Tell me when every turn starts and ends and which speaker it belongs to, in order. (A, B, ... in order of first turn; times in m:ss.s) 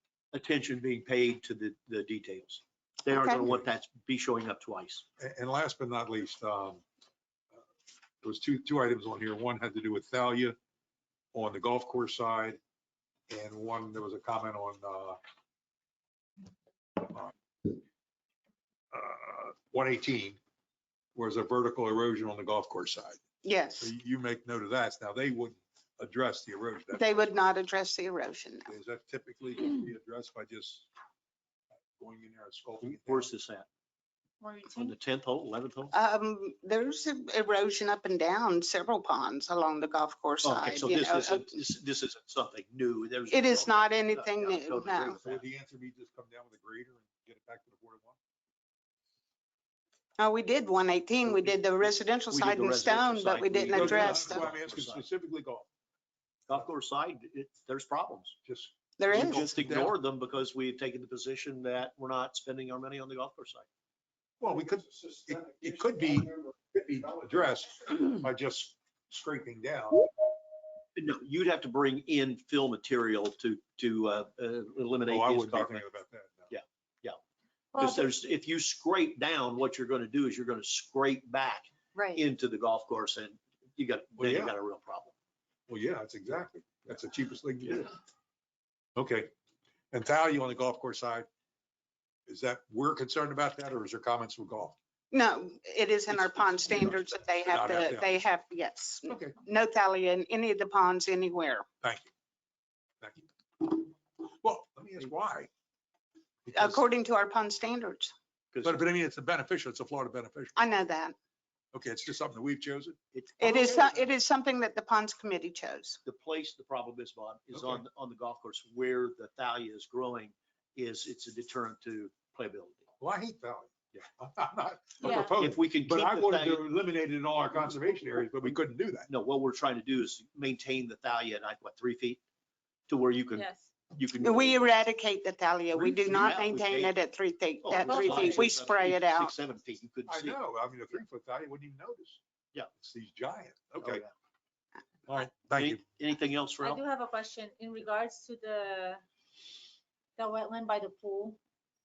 0:00.3-0:05.0 A
0:03.1-0:03.4 B
0:05.2-0:06.8 C
0:08.2-0:10.6 C
0:11.3-0:12.6 C
0:13.3-0:15.2 C
0:17.0-0:17.8 C
0:18.9-0:20.4 C
0:21.1-0:23.2 C
0:23.4-0:23.9 B
0:23.8-0:27.2 C
0:26.9-0:28.7 B
0:28.7-0:30.9 C
0:32.0-0:33.3 C
0:32.8-0:33.7 A
0:34.4-0:35.0 D
0:34.7-0:35.9 A
0:35.9-0:41.6 B
0:40.4-0:45.4 A
0:43.3-0:45.2 B
0:45.2-0:48.2 C
0:50.2-0:54.5 B
0:51.2-0:51.5 A
0:52.3-0:55.0 A
0:53.7-0:55.7 C
0:56.5-0:58.4 A
0:58.4-1:00.0 C
0:59.0-0:59.5 B
0:59.1-1:03.7 A
1:04.4-1:10.1 C
1:11.0-1:15.8 A
1:15.0-1:16.5 C
1:16.5-1:17.2 A
1:17.7-1:18.1 D
1:17.8-1:25.1 A
1:24.2-1:24.5 C
1:25.7-1:27.9 C
1:29.0-1:29.3 C
1:29.9-1:31.3 C
1:32.3-1:34.7 C
1:35.1-1:41.6 B
1:36.1-1:38.2 C
1:39.1-1:39.4 C
1:41.8-1:42.1 C
1:43.0-1:45.5 C
1:46.4-1:46.8 C
1:46.5-1:48.1 B
1:48.5-1:48.8 A
1:48.6-1:50.6 C
1:50.6-1:51.1 B
1:51.7-1:53.0 C
1:53.1-1:54.1 A
1:53.4-1:56.0 B
1:56.0-2:02.8 A
1:57.5-1:57.8 C
2:03.0-2:09.1 C
2:05.0-2:05.3 D
2:05.3-2:06.6 A
2:09.1-2:12.2 A
2:12.9-2:14.7 A
2:13.3-2:13.7 D
2:14.2-2:19.3 B
2:15.7-2:16.9 A
2:17.6-2:20.4 A
2:17.8-2:18.5 D
2:20.1-2:22.2 C
2:22.8-2:24.0 C
2:23.8-2:24.1 A
2:25.1-2:25.8 C
2:25.6-2:26.8 A
2:26.6-2:29.0 D
2:30.2-2:31.4 D